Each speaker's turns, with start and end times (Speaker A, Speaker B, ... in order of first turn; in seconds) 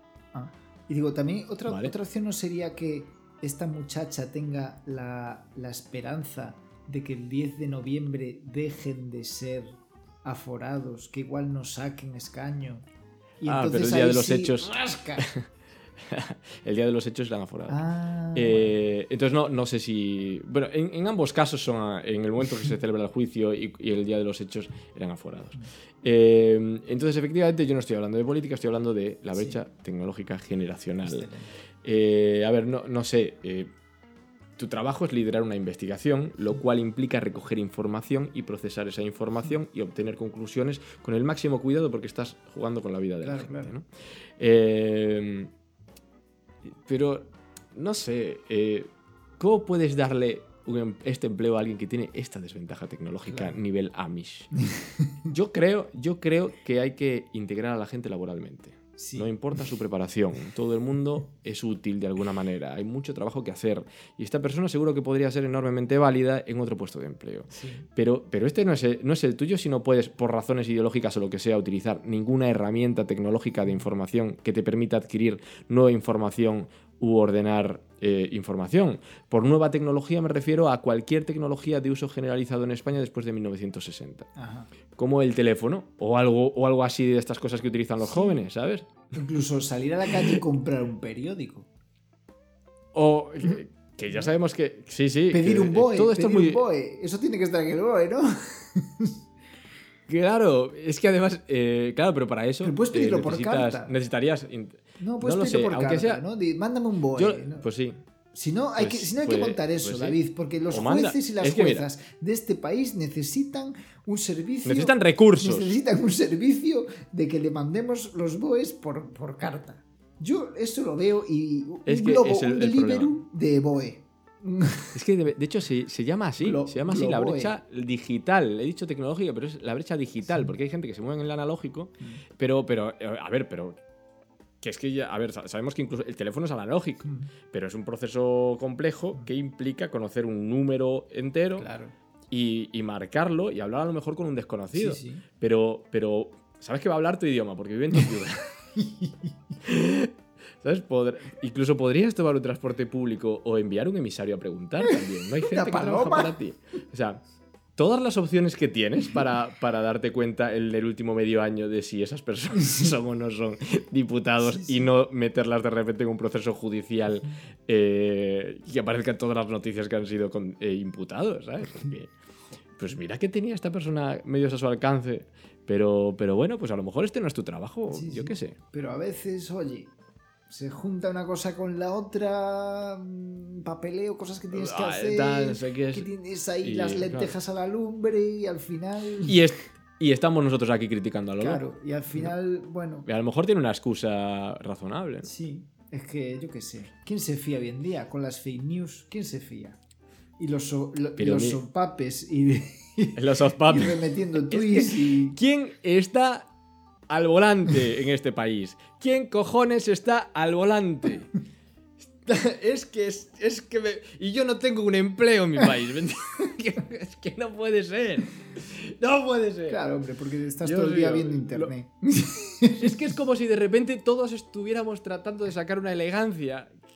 Speaker A: 0.3-12.8, 13.4-15.3, 17.7-18.7, 31.0-31.5, 43.2-43.7, 53.3-53.5, 54.6-55.1, 59.0-59.3, 67.5-67.9, 84.3-84.7, 88.0-88.4, 89.1-91.7, 95.3-99.2, 102.6-103.9, 105.0-107.7, 108.3-124.9, 126.4-127.5, 137.0-137.3, 141.6-141.9, 144.7-145.2, 148.8-149.3, 154.8-156.4, 164.4-164.9, 177.9-179.9, 180.5-189.4, 191.4-193.1, 195.2-199.8, 200.4-205.4, 219.7-223.0
Speaker B: 1.6-1.9, 13.4-15.5, 16.0-17.8, 18.3-31.3, 31.8-33.7, 34.6-43.9, 44.4-45.5, 46.6-54.5, 55.3-84.3, 84.9-89.0, 92.9-96.6, 100.1-106.2, 107.1-108.0, 108.8-110.2, 110.7-111.8, 114.6-115.7, 121.8-123.2, 124.9-133.8, 134.6-141.7, 142.3-148.6, 149.6-157.2, 157.8-172.1, 172.8-178.6, 184.5-186.1, 186.6-187.3, 189.2-191.6, 193.0-195.3, 201.2-201.6, 203.1-206.5, 207.1-211.3, 212.2-219.8, 220.6-221.7, 222.7-226.8